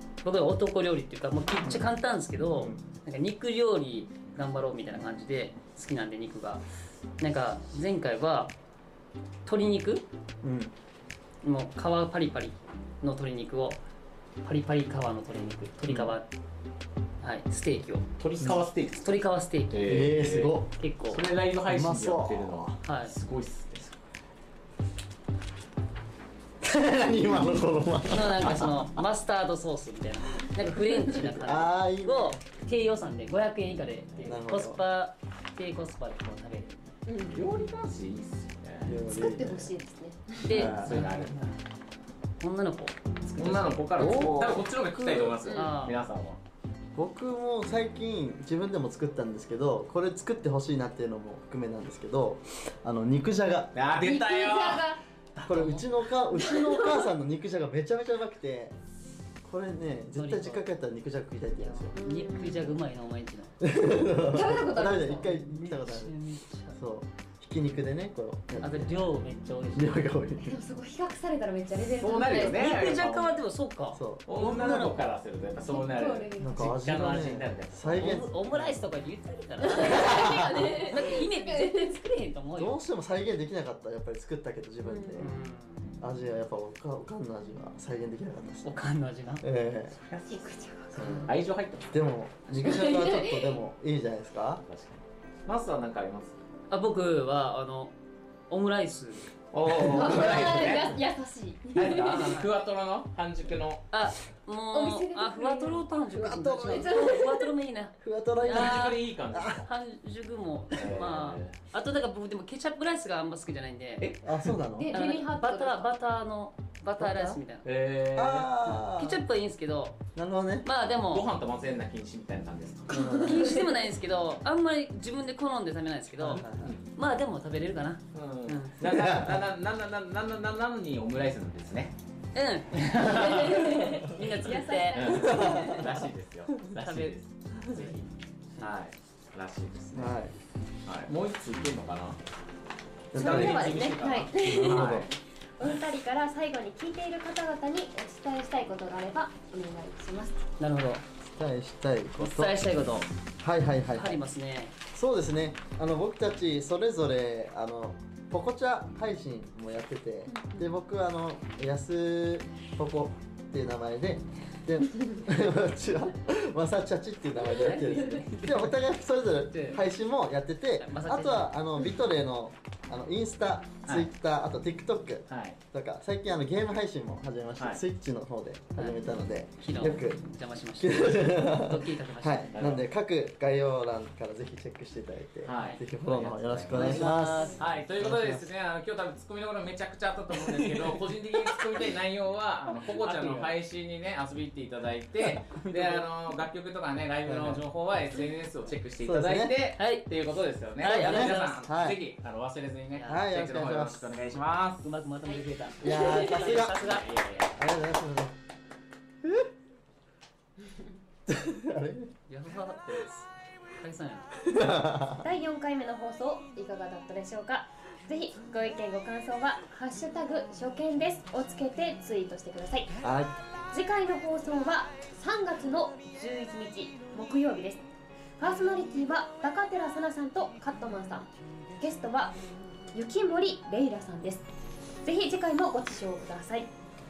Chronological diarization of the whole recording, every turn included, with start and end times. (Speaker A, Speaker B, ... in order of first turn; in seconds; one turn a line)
Speaker A: 0.2-6.6
Speaker B: 1.6-1.9
Speaker B: 2.4-2.8
Speaker A: 7.2-8.5
Speaker A: 9.4-10.1
Speaker B: 10.4-10.7
Speaker A: 11.4-13.8
Speaker A: 14.4-16.3
Speaker A: 17.2-18.1
Speaker C: 18.2-23.9
Speaker A: 19.0-19.8
Speaker B: 19.9-20.7
Speaker A: 20.8-21.2
Speaker B: 21.7-22.7
Speaker A: 22.9-23.1
Speaker B: 26.6-29.0
Speaker A: 28.1-36.8
Speaker B: 31.0-32.4
Speaker B: 34.2-34.8
Speaker D: 37.1-37.4
Speaker C: 37.3-39.0
Speaker B: 38.9-39.7
Speaker D: 39.1-40.6
Speaker A: 40.4-41.5
Speaker B: 40.5-41.1
Speaker C: 40.6-41.4
Speaker A: 42.4-43.9
Speaker C: 43.4-46.4
Speaker B: 44.0-45.4
Speaker A: 45.6-46.0
Speaker B: 47.0-53.8
Speaker C: 53.7-55.8
Speaker D: 54.0-55.0
Speaker B: 55.5-58.8
Speaker D: 56.3-57.0
Speaker B: 59.4-62.0
Speaker A: 60.1-60.7
Speaker A: 61.6-63.6
Speaker D: 62.0-62.7
Speaker B: 63.6-66.2
Speaker D: 64.3-65.3
Speaker A: 65.4-66.8
Speaker B: 66.7-69.1
Speaker A: 68.6-70.1
Speaker B: 69.8-70.6
Speaker D: 70.4-72.6
Speaker C: 71.8-73.4
Speaker A: 72.5-74.4
Speaker B: 73.9-75.0
Speaker C: 74.3-78.2
Speaker D: 75.7-76.7
Speaker B: 76.4-78.8
Speaker A: 77.9-80.1
Speaker D: 79.6-82.0
Speaker B: 79.8-80.8
Speaker A: 80.8-82.8
Speaker B: 82.6-85.3
Speaker D: 84.8-85.3
Speaker A: 85.2-85.9
Speaker B: 86.0-88.8
Speaker A: 88.6-89.5
Speaker B: 89.4-90.0
Speaker C: 90.1-91.9
Speaker D: 90.1-91.3
Speaker B: 91.0-91.3
Speaker B: 91.9-94.6
Speaker D: 92.5-93.6
Speaker C: 94.7-96.4
Speaker A: 96.7-97.9
Speaker A: 98.5-99.3
Speaker C: 99.5-101.0
Speaker B: 99.7-100.1
Speaker D: 99.9-102.3
Speaker C: 101.8-103.8
Speaker A: 102.1-102.5
Speaker A: 103.9-109.0
Speaker D: 104.7-107.5
Speaker B: 106.2-107.0
Speaker B: 108.0-109.6
Speaker C: 108.5-109.7
Speaker A: 109.6-114.1
Speaker C: 110.8-111.6
Speaker C: 114.0-114.3
Speaker B: 114.2-115.0
Speaker D: 114.7-115.9
Speaker A: 114.9-117.6
Speaker B: 117.0-117.4
Speaker C: 117.6-118.7
Speaker B: 118.1-119.2
Speaker A: 118.7-120.0
Speaker B: 120.1-120.7
Speaker A: 120.6-121.2
Speaker C: 121.0-122.9
Speaker B: 122.9-123.6
Speaker D: 122.9-123.7
Speaker A: 123.2-126.4
Speaker B: 126.2-126.8
Speaker C: 126.2-126.8
Speaker A: 127.0-128.8
Speaker C: 128.1-131.9
Speaker B: 128.8-129.5
Speaker A: 132.3-135.4
Speaker C: 132.7-133.9
Speaker D: 133.0-135.8
Speaker C: 134.9-138.1
Speaker B: 135.1-135.9
Speaker A: 136.8-137.2
Speaker C: 138.6-140.2
Speaker B: 139.9-140.3
Speaker C: 140.8-142.2
Speaker B: 143.1-145.1
Speaker C: 143.1-145.1
Speaker D: 143.1-150.4
Speaker A: 150.6-151.0
Speaker B: 151.4-152.6
Speaker A: 152.2-153.1
Speaker B: 153.4-154.2
Speaker A: 153.9-154.8
Speaker B: 154.9-180.2
Speaker D: 160.3-160.7
Speaker A: 167.4-168.8
Speaker A: 169.5-169.8
Speaker A: 170.8-171.6
Speaker C: 175.3-175.6
Speaker A: 178.8-179.0
Speaker A: 179.6-182.5
Speaker B: 180.8-188.4
Speaker C: 182.5-182.8
Speaker C: 185.4-187.1
Speaker A: 185.5-185.8
Speaker A: 186.7-187.6
Speaker C: 187.6-204.8
Speaker A: 190.4-191.6
Speaker A: 193.0-193.6
Speaker B: 195.6-196.0
Speaker B: 197.2-197.6
Speaker B: 199.0-199.6
Speaker A: 199.8-200.1
Speaker A: 200.8-201.6
Speaker B: 200.9-202.0
Speaker A: 202.9-203.3
Speaker B: 203.1-204.1
Speaker A: 204.8-207.5
Speaker B: 205.8-206.9
Speaker C: 206.6-207.5
Speaker B: 207.5-208.3
Speaker B: 211.3-212.1
Speaker A: 212.3-213.3
Speaker A: 213.8-214.3
Speaker B: 214.4-215.2
Speaker D: 215.2-222.9
Speaker B: 223.0-223.4
Speaker D: 223.7-227.9
Speaker D: 228.4-232.4
Speaker D: 232.9-234.5
Speaker D: 235.0-236.7